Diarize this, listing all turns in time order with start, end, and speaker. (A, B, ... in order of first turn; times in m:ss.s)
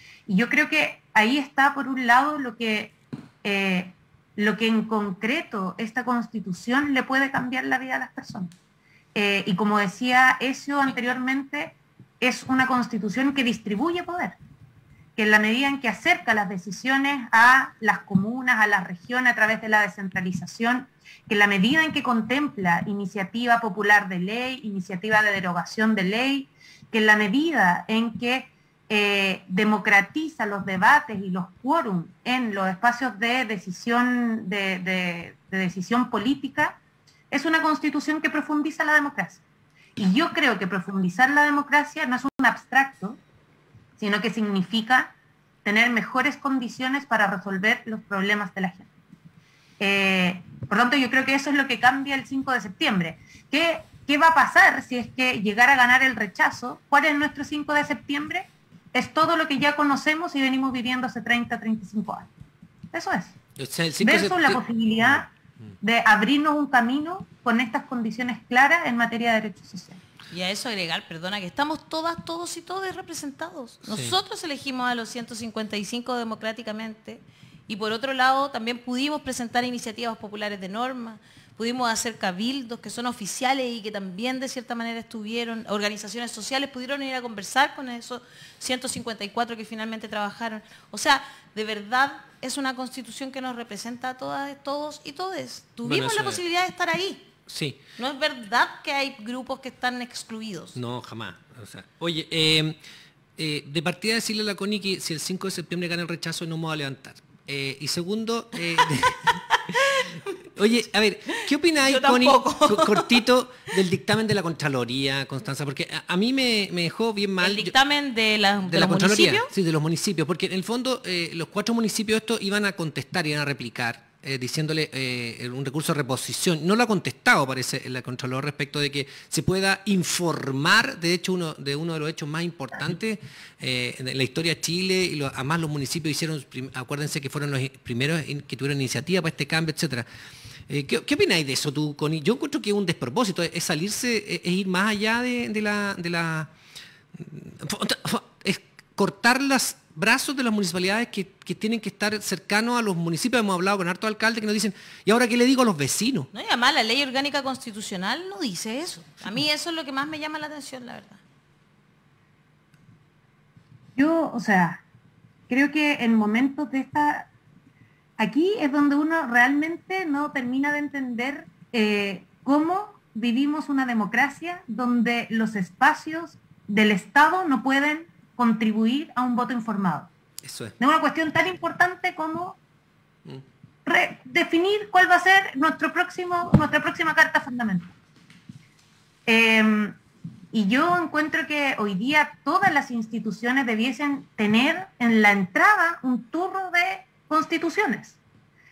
0:00.3-0:08.6 A
0:09.2-0:14.4 A
0:15.2-0:36.8 A
0:37.3-0:39.4 A
0:40.0-0:43.2 A
0:44.0-0:45.1 A
0:45.6-0:48.9 A
0:49.8-1:02.3 A
1:02.9-1:03.4 A
1:03.6-1:05.7 B
1:04.0-1:10.0 A
1:10.3-1:37.3 C
1:13.9-1:14.2 B
1:35.8-1:36.4 B
1:37.5-1:37.8 B
1:38.0-1:40.8 C
1:40.8-1:42.8 B
1:43.4-1:49.4 B
1:48.8-1:50.4 C
1:50.6-1:57.8 B
1:51.4-1:53.2 C
1:57.4-1:59.5 C
1:58.7-2:20.1 B
2:20.7-2:26.5 B
2:27.2-2:36.3 B
2:36.3-2:41.2 C
2:44.0-2:44.8 A
2:45.5-2:47.3 A
2:48.2-3:00.1 A
3:00.4-3:00.8 B
3:00.8-3:02.6 A
3:03.9-3:08.0 A
3:09.3-3:10.0 A
3:10.5-3:18.2 A